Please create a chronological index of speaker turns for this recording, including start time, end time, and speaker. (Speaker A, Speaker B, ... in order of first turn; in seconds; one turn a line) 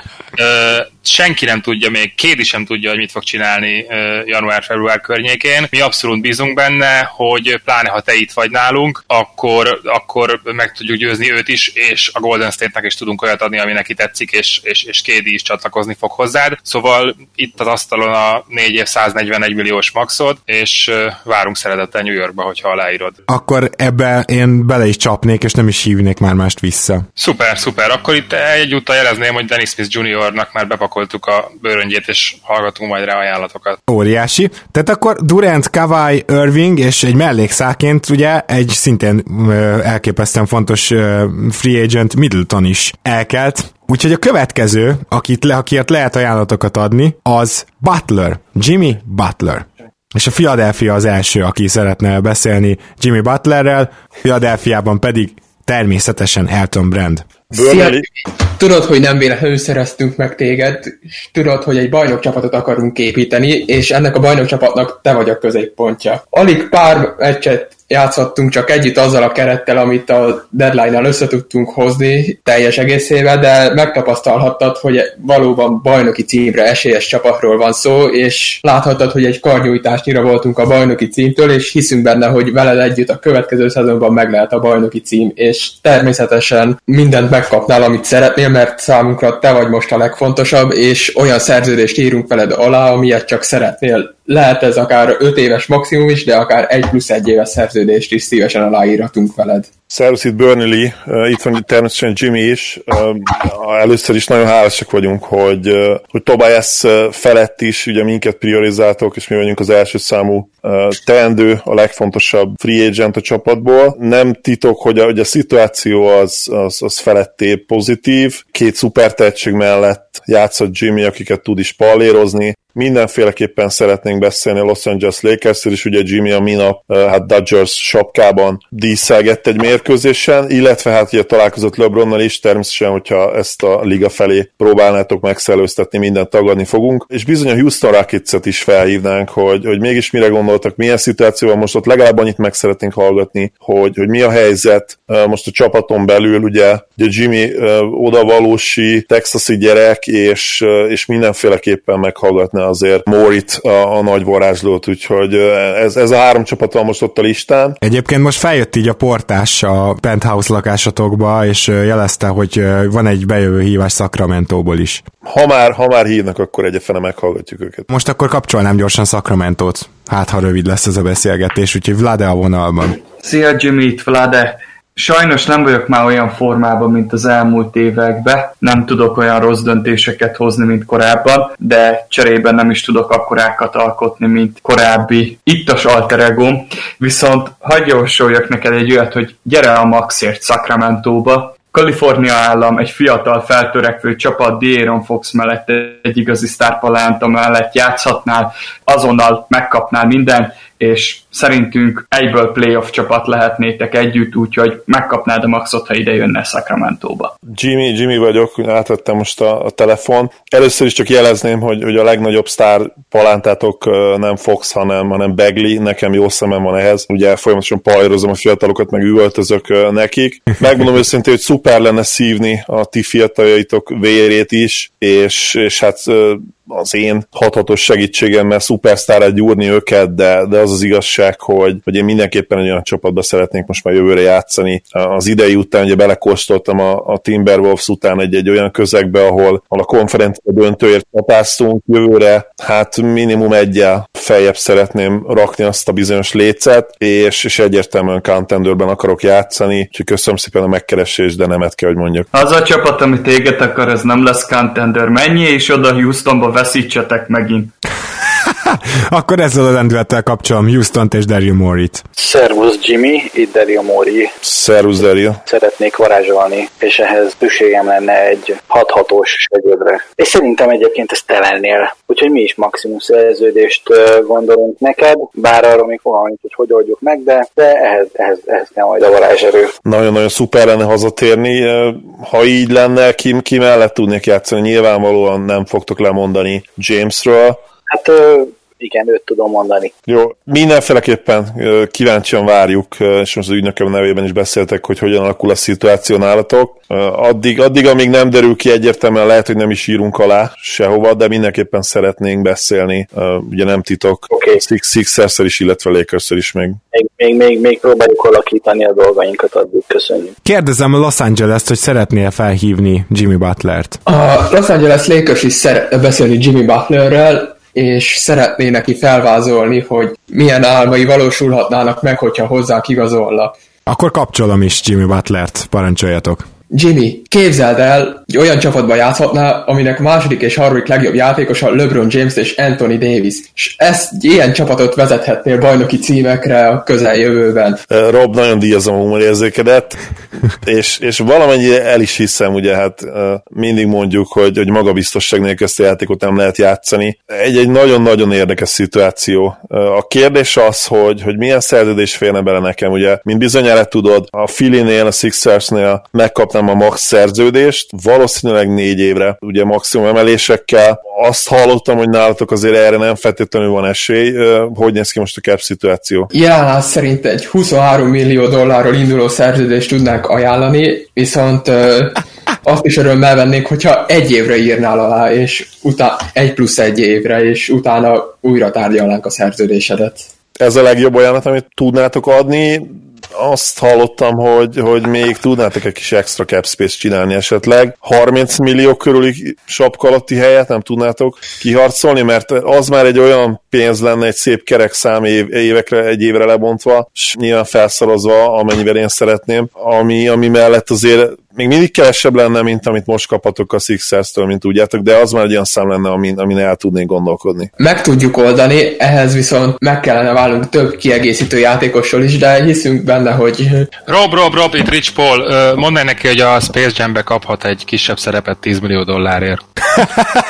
Speaker A: 0.4-23.1
Speaker B: 23.3-27.0
Speaker A: 27.2-33.8
Speaker B: 33.9-57.3
Speaker C: 57.5-99.7
Speaker D: 57.5-58.0
Speaker D: 99.9-157.8
Speaker B: 157.8-165.0
Speaker D: 165.2-167.9
Speaker B: 167.9-173.0
Speaker E: 173.2-207.3
Speaker D: 207.4-252.3
Speaker E: 252.3-257.7
Speaker B: 258.2-262.0
Speaker F: 262.2-264.3
Speaker D: 264.4-265.4
Speaker F: 265.4-279.7
Speaker D: 279.8-287.6
Speaker F: 287.9-289.9
Speaker D: 290.1-306.8
Speaker F: 304.3-304.6
Speaker F: 306.9-310.3
Speaker B: 310.4-314.0
Speaker C: 314.1-323.5
Speaker B: 323.9-326.5
Speaker C: 326.7-337.8
Speaker D: 337.9-340.0
Speaker D: 340.6-366.3
Speaker C: 366.3-380.3
Speaker D: 380.6-407.7
Speaker C: 407.8-413.9
Speaker A: 414.1-419.6